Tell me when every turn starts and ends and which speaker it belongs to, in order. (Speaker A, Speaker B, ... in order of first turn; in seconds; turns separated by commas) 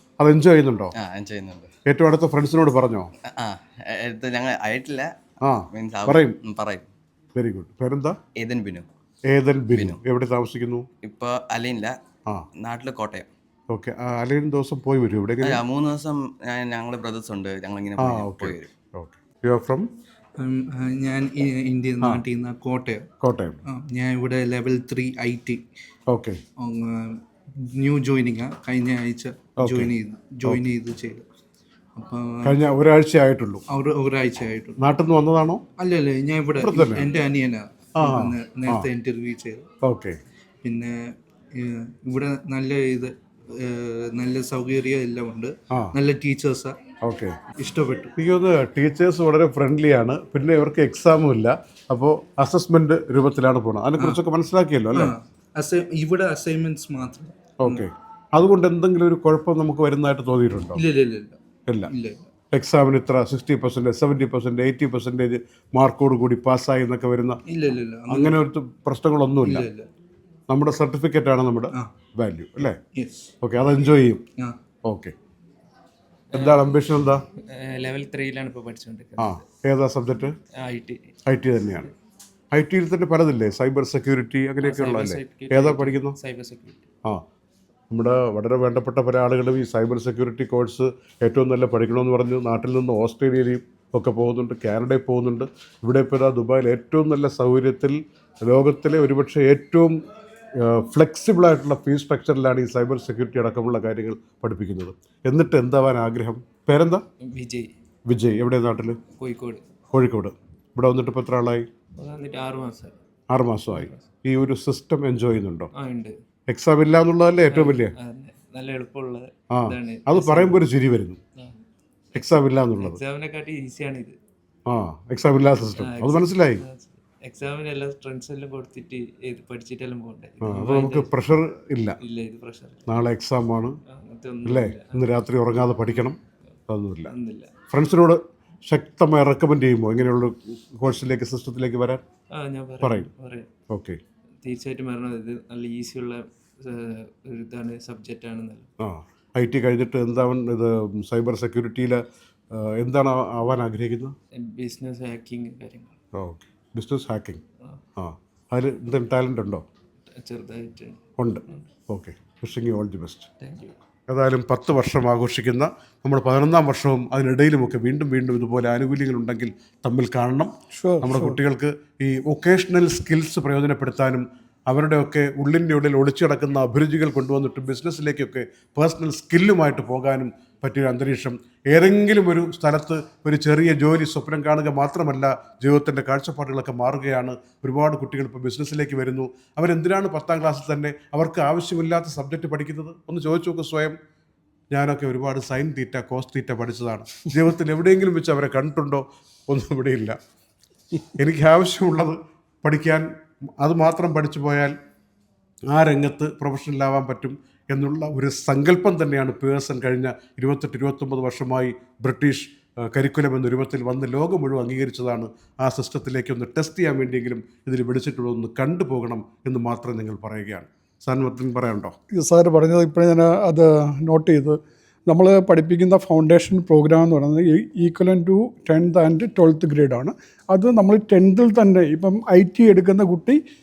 Speaker A: 0.2-0.9, Speaker B: 1.0-1.7, Speaker A: 1.9-3.1, Speaker B: 3.4-5.1, Speaker A: 5.4-6.4, Speaker B: 5.7-6.9, Speaker A: 7.4-8.2, Speaker B: 8.4-8.8, Speaker A: 9.3-10.9, Speaker B: 9.7-10.0, Speaker B: 11.0-12.0, Speaker B: 12.6-13.3, Speaker A: 13.7-15.6, Speaker B: 15.4-18.7, Speaker A: 18.0-19.9, Speaker C: 20.4-23.1, Speaker A: 23.2-23.6, Speaker C: 23.7-25.6, Speaker A: 26.1-26.4, Speaker C: 26.6-31.2, Speaker A: 29.6-29.9, Speaker C: 32.0-32.6, Speaker A: 32.4-33.6, Speaker C: 33.7-34.9, Speaker A: 34.8-35.6, Speaker C: 35.8-39.6, Speaker A: 36.6-37.1, Speaker A: 38.0-38.9, Speaker A: 39.8-40.2, Speaker C: 40.6-46.8, Speaker A: 47.0-47.4, Speaker C: 47.6-48.1, Speaker A: 48.1-55.1, Speaker C: 54.9-57.9, Speaker A: 57.6-60.8, Speaker C: 60.8-62.2, Speaker A: 62.5-67.4, Speaker C: 67.5-68.4, Speaker A: 68.1-69.7, Speaker C: 69.4-69.9, Speaker A: 70.5-72.8, Speaker C: 72.9-73.3, Speaker A: 73.4-74.2, Speaker A: 74.8-75.1, Speaker D: 76.3-76.9, Speaker A: 76.3-77.2, Speaker D: 77.5-79.4, Speaker A: 79.2-80.3, Speaker D: 80.6-81.0, Speaker A: 81.3-81.9, Speaker A: 82.5-86.2, Speaker D: 84.6-86.9, Speaker A: 87.9-100.0, Speaker A: 100.6-107.0, Speaker D: 107.2-107.7, Speaker A: 108.1-109.0, Speaker D: 109.1-109.6, Speaker A: 109.9-111.7, Speaker D: 112.0-113.0, Speaker A: 113.3-115.7, Speaker D: 113.7-114.1, Speaker D: 115.8-116.1, Speaker A: 116.5-117.9, Speaker D: 117.5-120.6, Speaker A: 119.5-121.2, Speaker D: 122.1-124.1, Speaker A: 122.1-123.0, Speaker A: 124.7-126.6, Speaker D: 125.8-131.2, Speaker A: 130.4-132.0, Speaker D: 132.0-132.9, Speaker A: 132.9-133.8, Speaker D: 133.9-135.1, Speaker A: 134.4-136.2, Speaker A: 136.7-137.1, Speaker D: 137.1-137.5, Speaker A: 137.7-142.0, Speaker D: 142.3-143.5, Speaker A: 142.8-143.1, Speaker A: 143.7-144.0, Speaker D: 144.4-148.7, Speaker A: 148.8-154.1, Speaker D: 154.3-156.0, Speaker A: 156.1-157.4, Speaker A: 158.0-159.6, Speaker D: 160.2-161.6, Speaker A: 161.2-163.3, Speaker D: 163.4-163.8, Speaker A: 164.1-194.0, Speaker E: 170.7-171.4, Speaker A: 194.7-200.2, Speaker A: 201.1-203.1, Speaker A: 203.6-204.8, Speaker A: 205.7-221.9, Speaker E: 222.1-233.4